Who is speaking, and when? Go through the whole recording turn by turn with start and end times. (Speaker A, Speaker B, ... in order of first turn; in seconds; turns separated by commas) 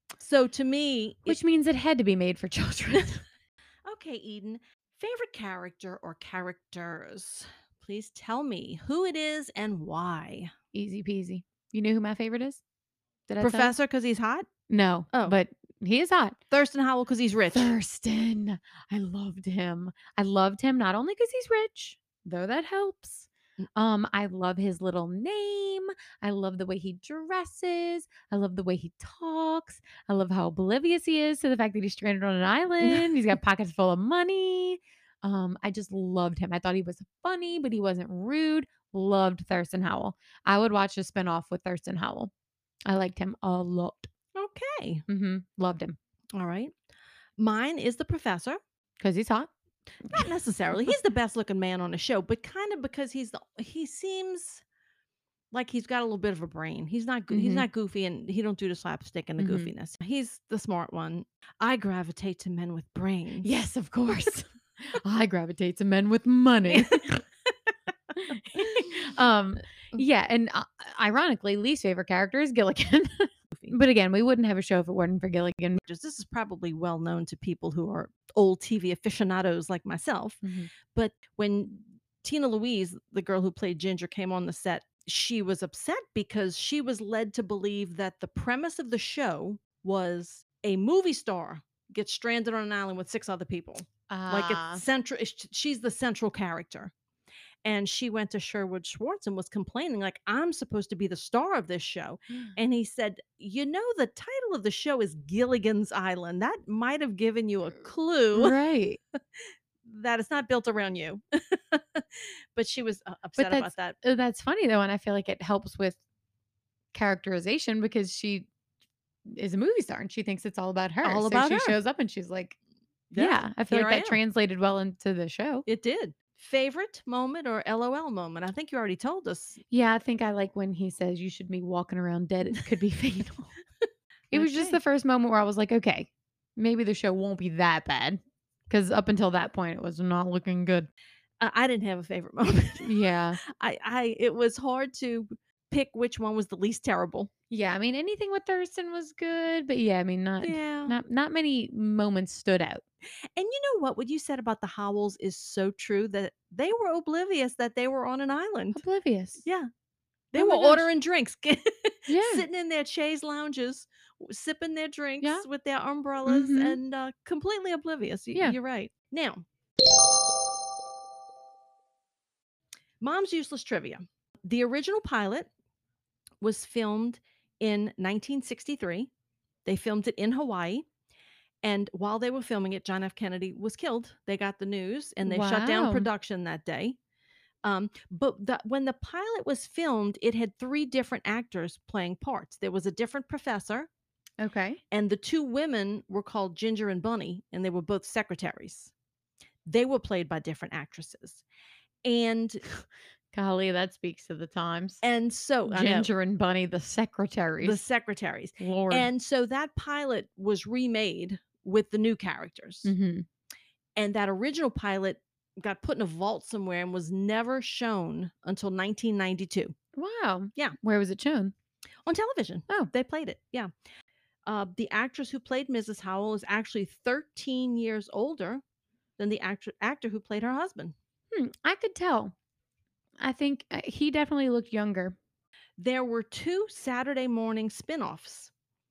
Speaker A: 0.2-1.4, Speaker B: 1.2-3.2, Speaker A: 3.9-10.5, Speaker B: 10.7-12.6, Speaker B: 13.3-13.7, Speaker A: 13.4-14.5, Speaker B: 14.7-16.4, Speaker A: 16.5-17.7, Speaker B: 17.5-42.3, Speaker A: 32.8-33.1, Speaker B: 42.9-44.1, Speaker A: 44.3-45.0, Speaker B: 45.1-46.0, Speaker A: 46.3-46.7, Speaker A: 47.4-48.6, Speaker B: 49.0-49.5, Speaker A: 50.1-54.6, Speaker A: 55.5-63.5, Speaker B: 57.3-57.6, Speaker B: 59.4-59.7, Speaker B: 63.4-67.2, Speaker A: 66.7-67.2, Speaker B: 68.2-75.8, Speaker A: 68.5-68.9, Speaker A: 73.5-73.8, Speaker A: 75.8-96.9, Speaker B: 80.4-80.7, Speaker B: 94.1-94.8, Speaker A: 97.6-108.5, Speaker B: 108.3-109.0, Speaker A: 109.3-114.0, Speaker B: 113.4-116.0, Speaker B: 116.9-118.5, Speaker B: 119.2-122.5, Speaker A: 121.0-121.8, Speaker A: 123.1-124.2, Speaker B: 123.1-125.7, Speaker A: 125.7-129.6, Speaker B: 129.7-133.5, Speaker B: 134.3-140.9, Speaker A: 134.3-134.8, Speaker A: 141.4-147.3, Speaker B: 142.8-143.4, Speaker B: 147.5-152.8, Speaker A: 150.4-150.9, Speaker A: 153.3-158.8, Speaker B: 158.7-159.4, Speaker A: 159.4-159.7, Speaker A: 160.3-169.4, Speaker B: 160.3-160.9, Speaker B: 162.1-162.4, Speaker B: 165.2-165.4, Speaker B: 166.2-166.8, Speaker A: 173.0-175.5, Speaker A: 176.4-179.1, Speaker A: 179.6-180.8, Speaker A: 181.6-187.0, Speaker B: 185.2-186.1, Speaker A: 187.6-193.9, Speaker B: 194.4-194.8, Speaker A: 194.9-198.9, Speaker A: 199.7-201.4, Speaker A: 202.0-202.6, Speaker B: 203.3-205.0, Speaker A: 205.0-206.1, Speaker B: 205.7-207.8, Speaker A: 207.6-212.9, Speaker B: 208.6-209.1, Speaker B: 212.8-213.2, Speaker A: 213.9-219.7, Speaker B: 219.9-221.5, Speaker A: 222.1-223.7, Speaker A: 224.4-228.6, Speaker A: 229.2-230.9, Speaker B: 231.3-232.3, Speaker B: 233.2-235.2, Speaker A: 235.8-238.5